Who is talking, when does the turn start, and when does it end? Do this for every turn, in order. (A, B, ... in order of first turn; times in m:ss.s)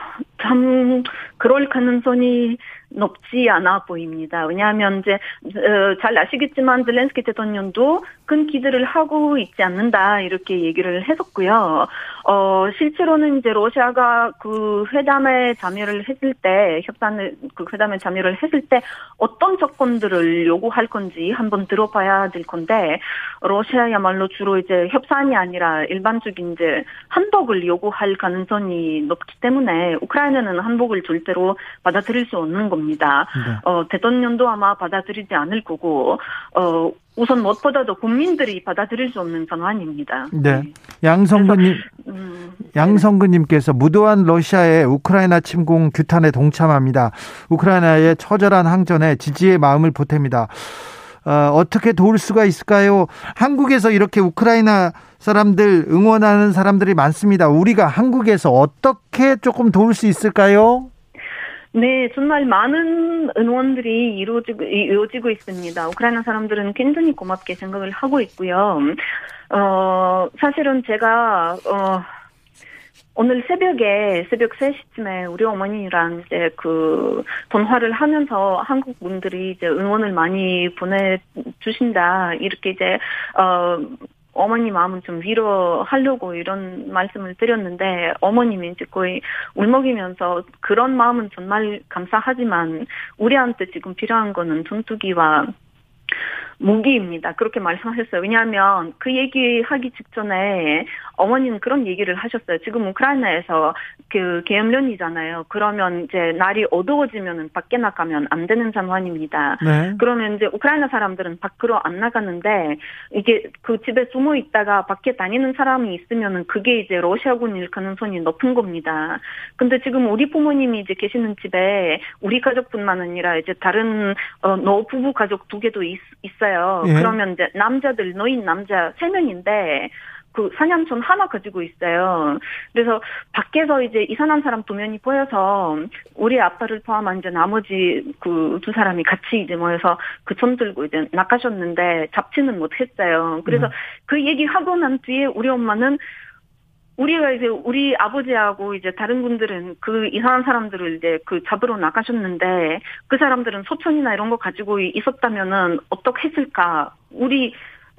0:00.4-0:40.7 A
0:33.4-0:33.6 B
0:40.3-0:41.9 B
0:41.3-0:43.0 A
0:42.7-1:00.9 B
1:01.7-1:12.1 A
1:13.2-1:35.5 A
1:36.6-2:26.0 A
1:49.6-1:50.0 B
2:06.8-2:07.1 B
2:27.0-2:37.6 A